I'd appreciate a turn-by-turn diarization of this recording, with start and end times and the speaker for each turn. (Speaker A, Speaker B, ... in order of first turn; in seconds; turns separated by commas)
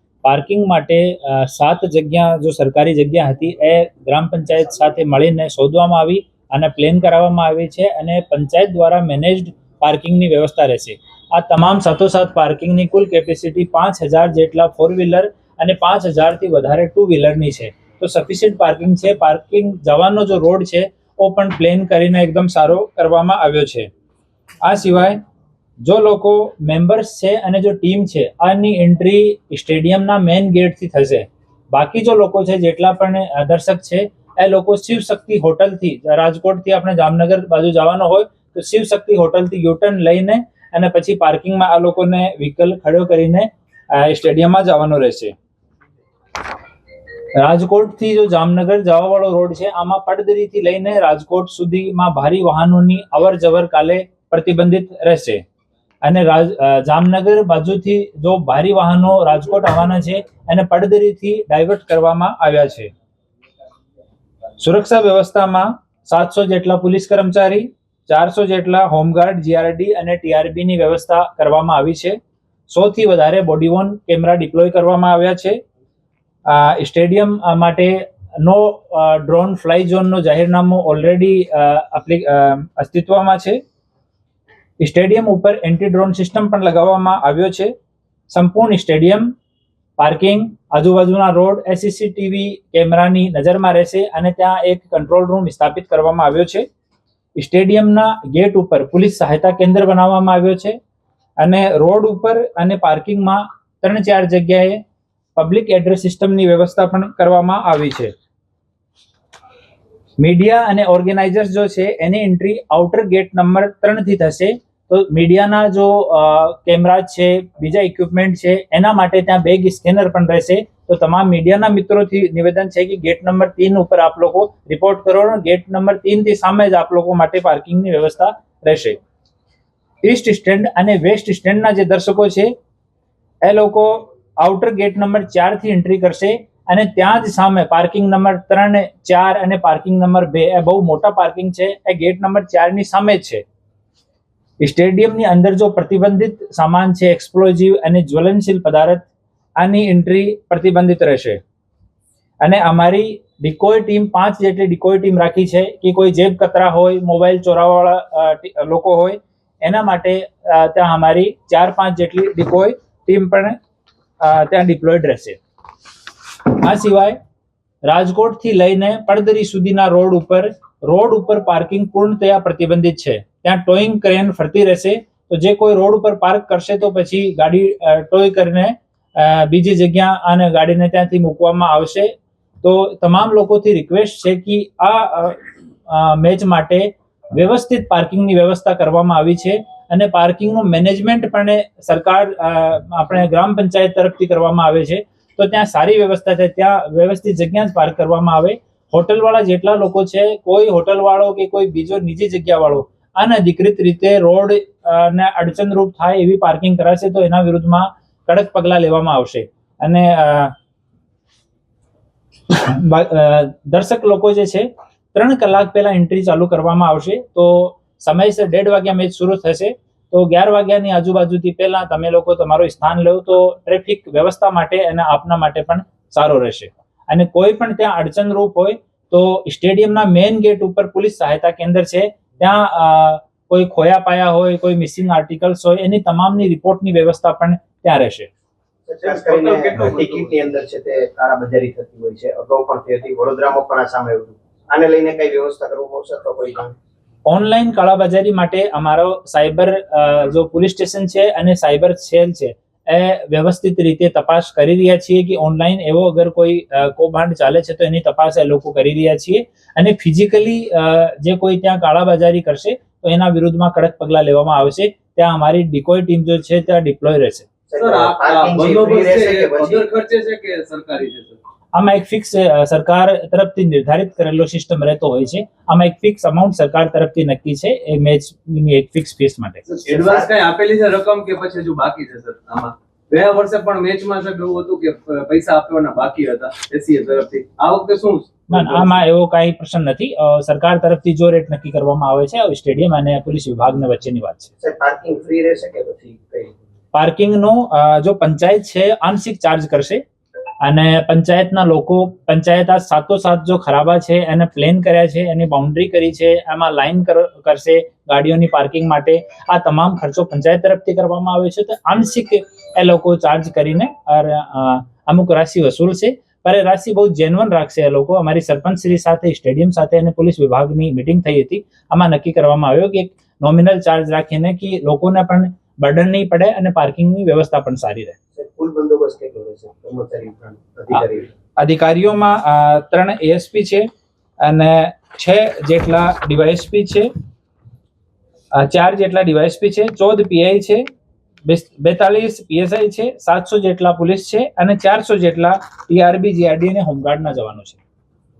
Speaker A: 0.2-23.9, Speaker A: 24.6-25.2, Speaker A: 25.8-45.3, Speaker A: 47.4-55.4, Speaker A: 56.0-62.9, Speaker A: 64.6-72.2, Speaker A: 72.7-75.6, Speaker A: 76.5-83.6, Speaker A: 84.8-87.7, Speaker A: 88.3-89.3, Speaker A: 90.0-96.6, Speaker A: 97.4-100.8, Speaker A: 101.4-104.8, Speaker A: 105.3-108.1, Speaker A: 110.2-129.0, Speaker A: 130.0-132.5, Speaker A: 133.4-143.4, Speaker A: 144.6-149.1, Speaker A: 149.6-151.4, Speaker A: 152.4-163.6, Speaker A: 164.2-165.4, Speaker A: 166.4-167.2, Speaker A: 167.8-210.5, Speaker A: 212.5-238.3, Speaker B: 238.9-246.7, Speaker C: 239.0-240.3, Speaker A: 247.3-267.5, Speaker B: 267.7-269.8, Speaker C: 267.8-271.4, Speaker A: 271.7-279.6, Speaker C: 279.7-289.0, Speaker B: 279.8-280.3, Speaker A: 288.5-294.5, Speaker B: 294.6-296.6, Speaker A: 296.9-300.0, Speaker A: 300.6-328.1, Speaker B: 328.3-331.3, Speaker A: 331.6-333.9, Speaker A: 334.4-337.1, Speaker A: 338.6-340.8, Speaker A: 341.4-347.8